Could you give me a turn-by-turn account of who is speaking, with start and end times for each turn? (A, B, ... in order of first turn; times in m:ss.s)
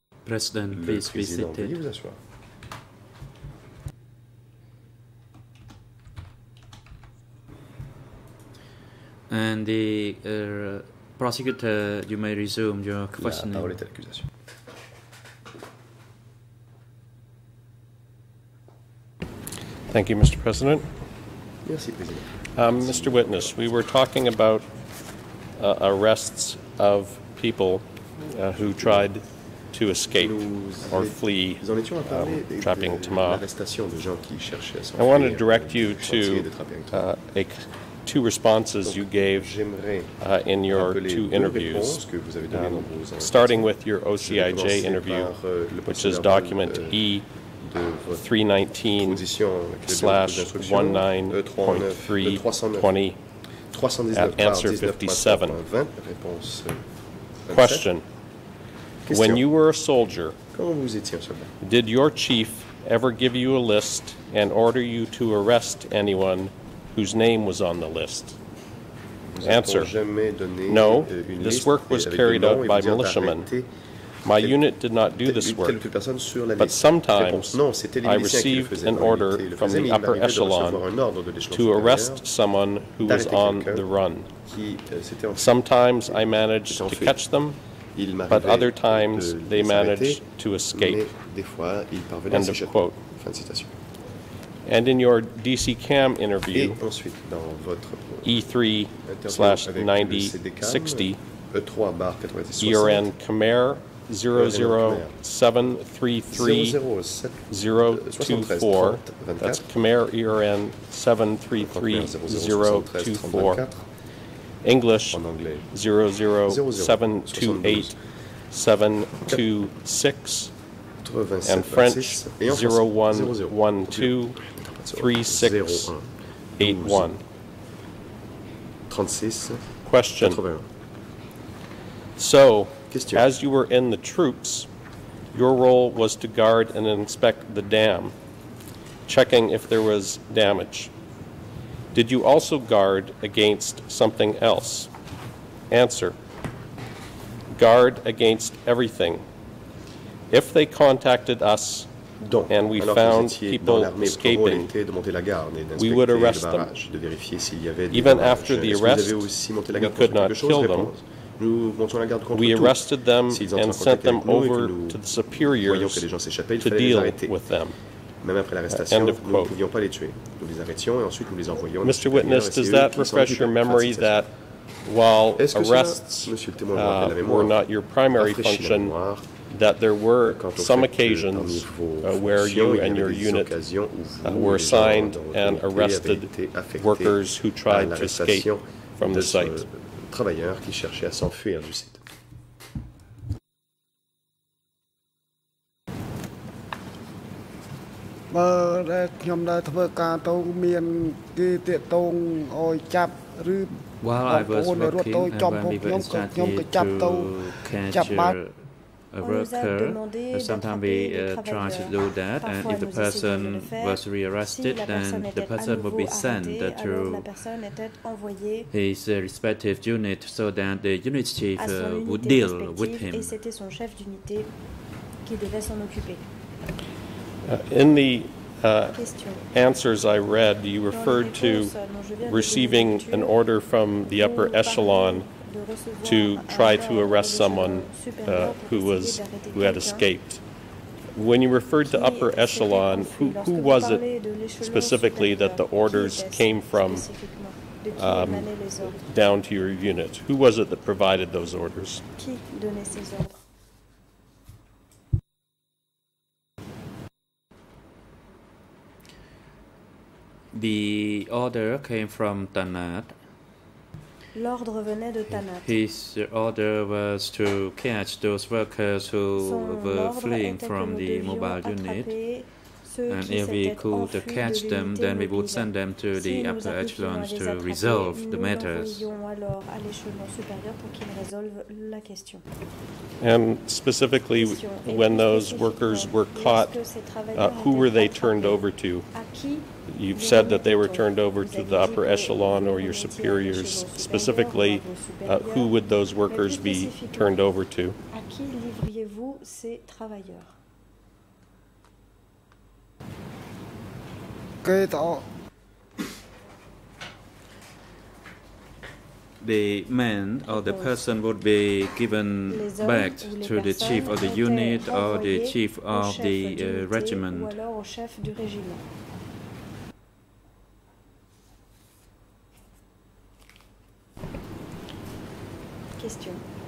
0:00.3-0:01.8 A
0:00.7-0:02.2 B
0:09.3-0:13.8 A
0:13.2-0:14.3 B
0:19.9-0:20.9 C
0:21.6-0:23.5 B
0:22.6-0:24.7 C
0:25.6-0:33.4 C
0:28.8-0:29.1 B
0:30.1-0:37.1 B
0:35.0-0:39.5 C
0:38.8-0:47.0 B
0:40.2-0:45.3 C
0:45.9-0:47.3 C
0:47.6-0:52.9 B
0:48.1-0:49.2 C
0:49.8-0:53.2 C
0:53.7-0:56.9 B
0:54.1-0:55.6 C
0:57.4-0:57.9 B
0:57.5-0:58.0 C
0:59.1-0:59.5 B
0:59.1-1:00.4 C
1:00.5-1:01.5 B
1:01.6-1:08.4 C
1:09.3-1:13.7 B
1:09.4-1:09.9 C
1:10.7-1:13.5 C
1:14.2-1:15.8 C
1:14.3-1:14.6 B
1:15.2-1:22.3 B
1:16.6-1:20.8 C
1:21.5-1:24.3 C
1:23.0-1:27.2 B
1:25.4-1:27.6 C
1:27.9-1:33.8 B
1:28.3-1:31.0 C
1:32.3-1:33.0 C
1:34.7-1:36.8 C
1:36.5-1:43.1 B
1:38.2-1:41.2 C
1:42.6-1:46.8 C
1:44.3-1:45.2 B
1:46.3-1:49.6 B
1:47.5-1:53.6 C
1:51.6-1:53.8 B
1:54.6-2:00.5 C
1:55.1-1:55.7 B
1:56.5-1:58.0 B
2:01.0-2:07.2 B
2:01.4-2:06.0 C
2:06.6-2:07.2 C
2:08.9-2:10.7 B
2:09.9-2:10.4 C
2:12.2-2:14.7 C
2:12.9-2:13.3 B
2:15.3-2:18.1 C
2:19.1-2:20.9 C
2:21.9-2:24.9 C
2:25.7-2:26.2 C
2:27.5-2:29.2 C
2:30.3-2:31.9 C
2:32.2-2:47.4 B
2:32.5-2:34.7 C
2:35.8-2:36.7 C
2:37.9-2:40.9 C
2:42.3-2:47.8 C
2:48.2-2:54.2 B
2:48.7-2:49.5 C
2:51.8-2:59.0 C
2:55.4-2:57.6 B
2:58.1-2:59.4 B
2:59.5-3:03.5 C
3:00.2-3:12.0 B
3:04.2-3:09.6 C
3:18.3-3:28.4 D
3:24.0-3:37.3 A
3:29.2-3:38.7 E
3:38.7-3:43.4 A
3:41.6-3:44.5 E
3:45.2-3:46.3 E
3:47.4-3:49.0 C
3:48.9-3:49.5 E
3:49.5-3:51.7 C
3:50.9-3:53.4 E
3:52.3-3:55.3 C
3:54.1-4:00.1 E
3:56.0-4:00.4 C
4:01.2-4:07.1 C
4:01.8-4:09.0 E
4:08.0-4:12.0 C
4:12.2-4:13.4 E
4:20.5-4:23.2 A
4:24.3-4:25.7 E
4:25.4-4:32.2 A
4:29.4-4:42.4 E
4:33.1-4:39.1 A
4:43.2-4:46.8 C
4:44.3-4:55.7 E
4:47.3-4:49.1 C
4:49.9-4:58.0 C
4:56.2-4:57.4 E
4:58.1-5:00.5 E
5:04.6-5:05.2 D
5:09.4-5:17.6 A
5:10.4-5:11.1 E
5:12.5-5:18.9 E
5:26.0-5:26.4 E